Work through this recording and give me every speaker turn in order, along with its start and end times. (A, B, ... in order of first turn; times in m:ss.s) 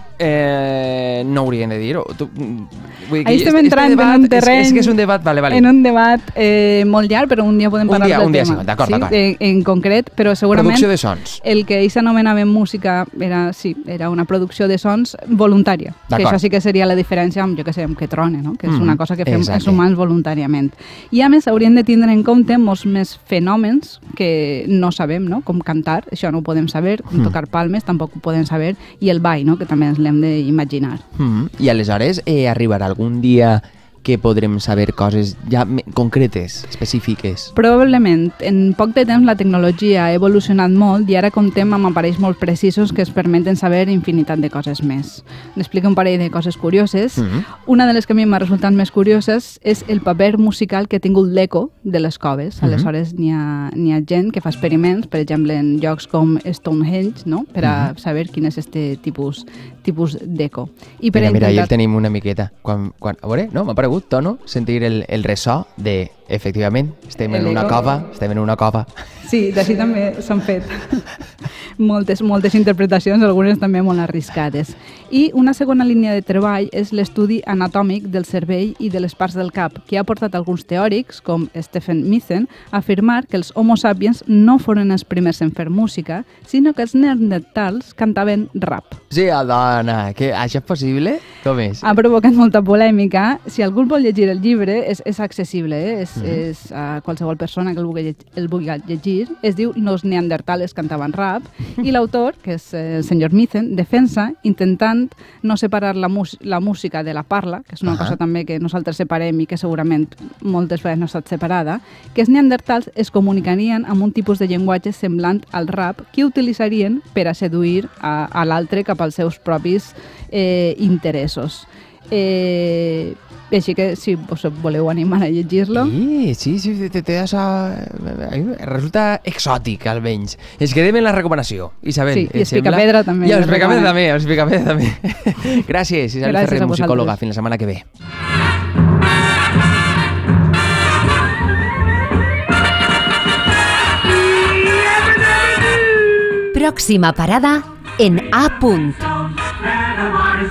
0:00.2-0:05.7 A
0:03.2-0:31.0 B
0:07.9-0:09.2 A
0:10.5-0:11.4 A
0:16.1-0:16.4 A
0:18.6-0:19.8 A
0:31.2-0:37.5 A
0:37.5-1:01.7 B
0:47.2-0:47.4 A
0:52.6-0:52.9 A
0:57.6-0:57.9 A
1:01.1-1:08.9 A
1:07.3-1:07.9 B
1:09.2-1:11.2 B
1:11.8-1:29.0 B
1:29.1-1:31.9 A
1:31.8-2:05.9 B
1:36.2-1:36.4 A
1:47.8-1:48.2 A
2:05.7-2:17.8 A
2:12.1-2:13.9 B
2:16.2-2:17.1 B
2:26.5-2:29.2 C